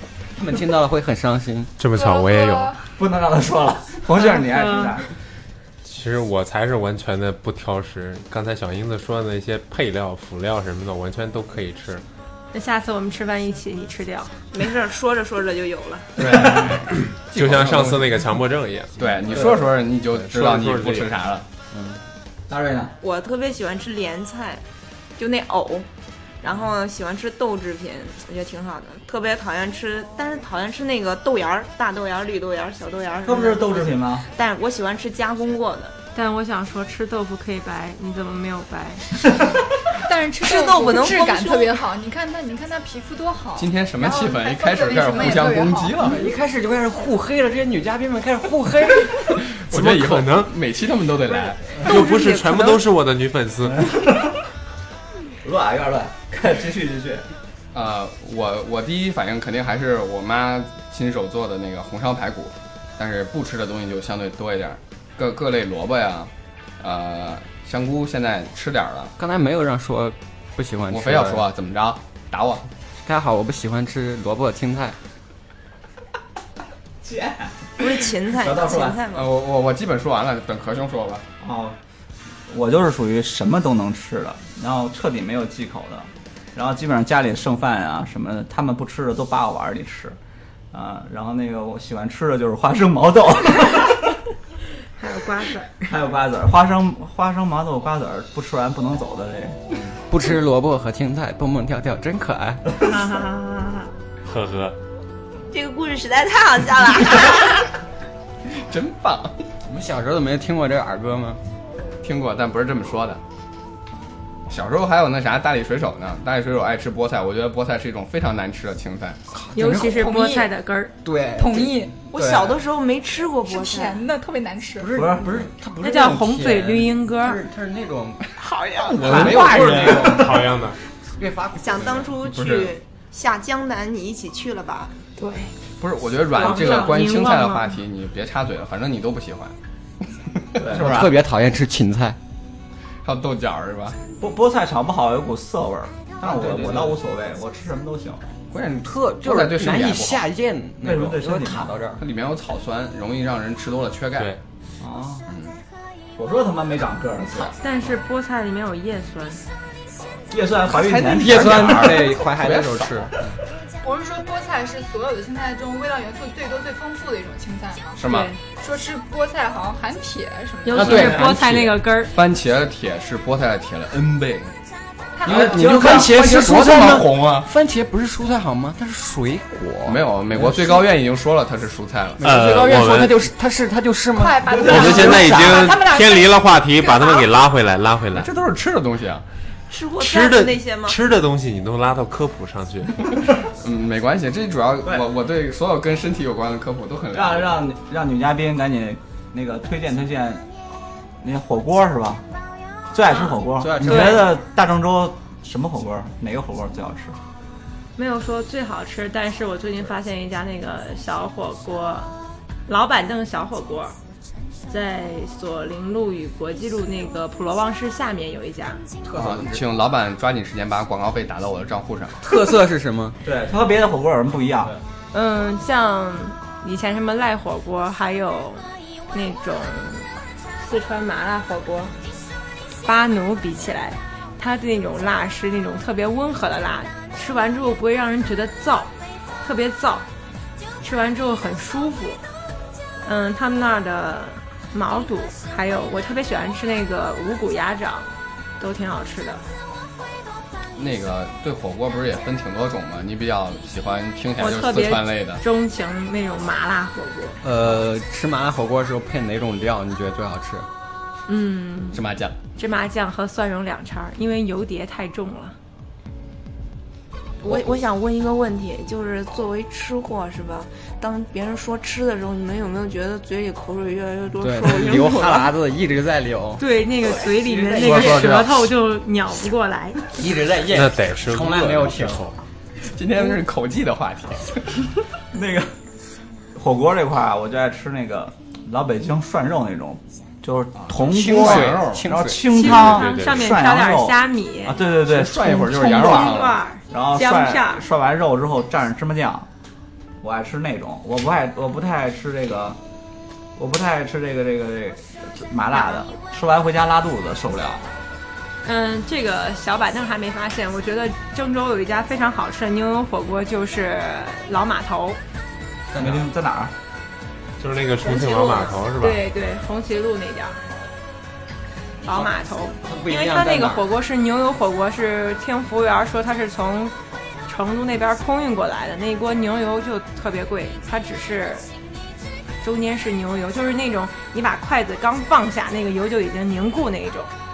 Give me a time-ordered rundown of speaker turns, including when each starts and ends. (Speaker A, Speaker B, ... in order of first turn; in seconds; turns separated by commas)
Speaker A: 0.4-1.7, Speaker B: 1.8-2.8, Speaker C: 1.9-2.9, Speaker D: 3.0-5.1, Speaker E: 4.2-5.0, Speaker B: 5.8-12.0, Speaker E: 12.5-14.4, Speaker F: 14.5-16.5, Speaker B: 16.3-19.6, Speaker D: 16.4-16.7, Speaker G: 17.3-18.1, Speaker G: 19.0-21.4, Speaker B: 20.1-21.2, Speaker A: 21.7-22.0, Speaker D: 22.5-22.9, Speaker F: 23.0-24.6, Speaker F: 25.2-25.9, Speaker F: 26.4-36.0, Speaker D: 33.2-34.3, Speaker E: 36.1-39.3, Speaker C: 40.0-46.1, Speaker F: 40.4-41.9, Speaker G: 43.6-46.3, Speaker A: 46.0-49.3, Speaker G: 49.5-51.9, Speaker B: 49.6-50.6, Speaker B: 51.8-54.0, Speaker F: 51.8-52.8, Speaker D: 53.8-54.3, Speaker D: 55.4-57.3, Speaker G: 57.7-69.1, Speaker A: 69.2-71.5, Speaker G: 70.9-72.7, Speaker A: 73.0-75.0, Speaker D: 77.0-79.0, Speaker F: 77.8-79.3, Speaker G: 79.1-81.3, Speaker D: 81.4-81.8, Speaker D: 82.5-90.2, Speaker D: 90.7-94.2, Speaker E: 95.0-95.9, Speaker D: 95.9-99.6, Speaker A: 99.7-102.7, Speaker E: 102.8-103.9, Speaker B: 104.2-104.8, Speaker F: 105.5-107.7, Speaker G: 108.5-109.4, Speaker A: 109.7-111.4, Speaker G: 112.0-113.2, Speaker G: 114.5-119.2, Speaker E: 119.5-120.9, Speaker C: 119.6-120.5, Speaker A: 121.0-122.6, Speaker C: 121.4-122.0, Speaker F: 122.1-124.0, Speaker C: 123.5-124.9, Speaker A: 124.8-128.2, Speaker D: 124.9-125.5, Speaker E: 125.8-127.4, Speaker F: 128.3-129.2, Speaker D: 129.0-130.1, Speaker A: 129.0-130.5, Speaker B: 129.1-130.8, Speaker G: 129.3-130.1, Speaker A: 131.2-132.1, Speaker F: 131.6-134.9, Speaker G: 131.9-132.7, Speaker E: 135.2-135.5, Speaker G: 135.8-139.6, Speaker E: 136.3-137.8, Speaker G: 140.4-141.2, Speaker D: 140.6-140.9, Speaker A: 140.7-142.2, Speaker G: 143.0-144.0, Speaker D: 144.2-148.2, Speaker G: 146.5-146.8, Speaker G: 148.5-150.3, Speaker A: 148.8-152.0, Speaker D: 150.8-151.8, Speaker G: 152.0-154.4, Speaker D: 154.8-155.3, Speaker G: 155.3-155.6, Speaker D: 156.2-157.5, Speaker E: 157.6-159.4, Speaker D: 160.3-162.2, Speaker G: 160.7-163.1, Speaker A: 161.1-163.3, Speaker C: 163.8-171.1, Speaker G: 168.0-168.3, Speaker E: 168.0-168.4, Speaker E: 170.7-172.1, Speaker G: 170.8-174.6, Speaker A: 170.9-171.5, Speaker D: 170.9-171.3, Speaker C: 175.2-175.8, Speaker G: 175.2-177.5, Speaker D: 175.3-176.2, Speaker A: 175.4-180.8, Speaker G: 179.8-182.2, Speaker A: 182.2-185.8, Speaker B: 182.2-183.3, Speaker C: 184.2-187.3, Speaker D: 184.5-184.9, Speaker B: 184.6-188.3, Speaker G: 188.1-189.2, Speaker F: 189.7-191.0, Speaker B: 190.0-193.1, Speaker G: 193.6-197.6, Speaker D: 197.1-200.4, Speaker D: 201.2-202.2, Speaker D: 202.9-207.2, Speaker A: 203.6-204.3, Speaker E: 203.8-204.3, Speaker E: 208.0-212.1, Speaker E: 212.7-214.0, Speaker E: 214.7-218.8, Speaker A: 219.1-219.6, Speaker G: 219.2-222.3, Speaker A: 222.2-223.2, Speaker D: 223.2-224.7, Speaker E: 225.1-231.9, Speaker E: 232.8-240.1, Speaker E: 240.8-242.2, Speaker E: 243.0-249.5, Speaker G: 250.8-255.4, Speaker E: 254.4-257.4, Speaker A: 257.4-260.7, Speaker E: 261.3-262.0, Speaker G: 261.9-262.4, Speaker E: 262.6-265.6, Speaker F: 267.4-275.5, Speaker A: 267.5-267.8, Speaker A: 274.4-276.6, Speaker E: 276.6-280.1, Speaker A: 277.6-278.3, Speaker G: 277.7-278.7, Speaker A: 280.1-282.3, Speaker B: 280.7-282.4, Speaker G: 282.8-284.8, Speaker D: 285.3-285.8, Speaker D: 286.5-299.5, Speaker G: 290.8-292.1, Speaker A: 290.9-292.5, Speaker E: 292.5-294.9, Speaker B: 292.6-293.5, Speaker G: 295.0-296.6, Speaker E: 295.7-297.9, Speaker D: 300.2-302.8, Speaker D: 303.6-307.9, Speaker E: 308.6-315.2, Speaker A: 315.9-316.3, Speaker D: 315.9-316.7, Speaker B: 317.6-319.2, Speaker E: 318.0-320.6, Speaker E: 322.1-326.9, Speaker A: 322.1-323.9, Speaker E: 327.5-331.6, Speaker E: 332.6-337.3